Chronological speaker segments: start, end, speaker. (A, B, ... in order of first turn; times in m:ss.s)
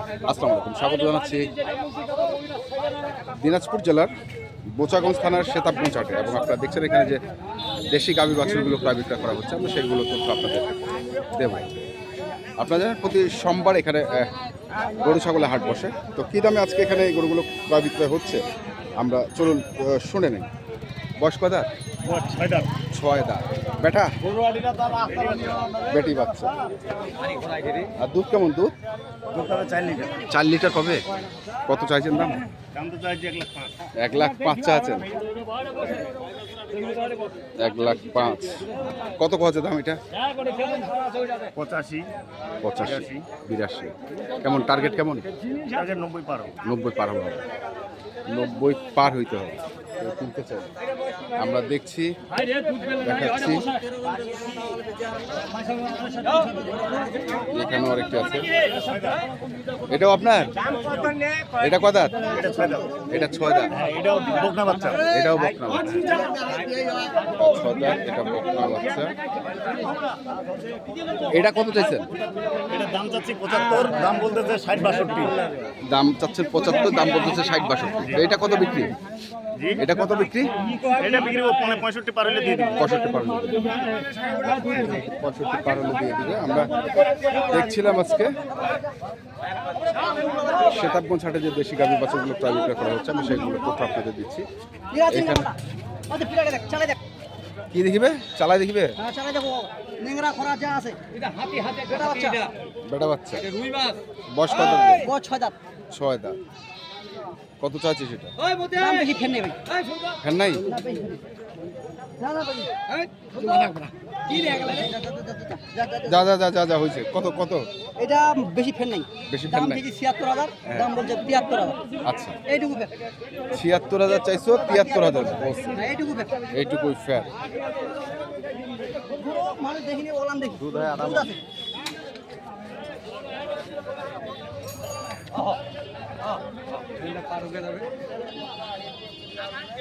0:00.2-0:01.5 A
0:03.3-0:04.1 A
0:04.7-0:07.2 A
0:07.9-0:10.7 A
0:11.3-0:11.7 A
0:12.6-0:14.3 A
0:15.0-0:18.4 A
0:19.0-0:20.5 A
0:21.2-0:21.7 A
0:22.0-0:22.7 B
0:22.9-0:24.1 A
0:24.3-0:25.8 B
0:25.8-0:26.5 A
0:28.0-0:28.7 A
0:29.3-0:30.2 B
0:30.3-0:31.0 A
0:31.6-0:32.4 A
0:32.7-0:33.7 B
0:34.0-0:35.1 A
0:37.6-0:40.0 A
0:41.4-0:42.1 B
0:42.6-0:45.3 A
0:42.8-0:43.3 B
0:45.7-0:46.5 B
0:46.6-0:47.4 A
0:48.3-0:50.7 A
0:51.4-0:52.1 A
0:52.9-0:53.7 A
0:55.7-0:57.1 C
0:57.5-0:58.5 A
0:58.8-0:59.2 B
0:59.9-1:00.6 A
1:00.8-1:01.1 B
1:01.6-1:02.3 A
1:02.2-1:03.0 B
1:03.1-1:03.7 A
1:03.7-1:05.1 B
1:04.9-1:06.0 A
1:06.1-1:07.1 C
1:07.3-1:09.2 A
1:11.3-1:12.1 A
1:12.7-1:15.5 B
1:15.8-1:19.0 A
1:19.5-1:19.8 B
1:19.8-1:20.5 A
1:20.6-1:22.8 B
1:22.7-1:23.8 A
1:23.8-1:24.6 B
1:24.5-1:26.8 A
1:27.4-1:28.3 A
1:30.1-1:30.6 C
1:30.6-1:34.5 A
1:34.9-1:35.6 C
1:35.1-1:35.5 A
1:36.1-1:37.0 C
1:37.7-1:38.9 A
1:39.0-1:42.5 C
1:42.9-1:43.5 A
1:44.3-1:45.1 A
1:44.5-1:45.6 C
1:45.9-1:46.4 A
1:47.6-1:48.3 A
1:48.4-1:49.6 C
1:50.2-1:50.6 A
1:50.6-1:51.2 C
1:52.2-1:56.2 C
1:56.0-1:57.6 A
1:58.0-2:01.8 C
1:59.3-1:59.8 A
2:02.1-2:02.4 A
2:02.5-2:02.9 C
2:03.5-2:05.8 A
2:04.6-2:06.4 C
2:06.5-2:07.3 A
2:09.1-2:11.4 C
2:10.6-2:11.3 A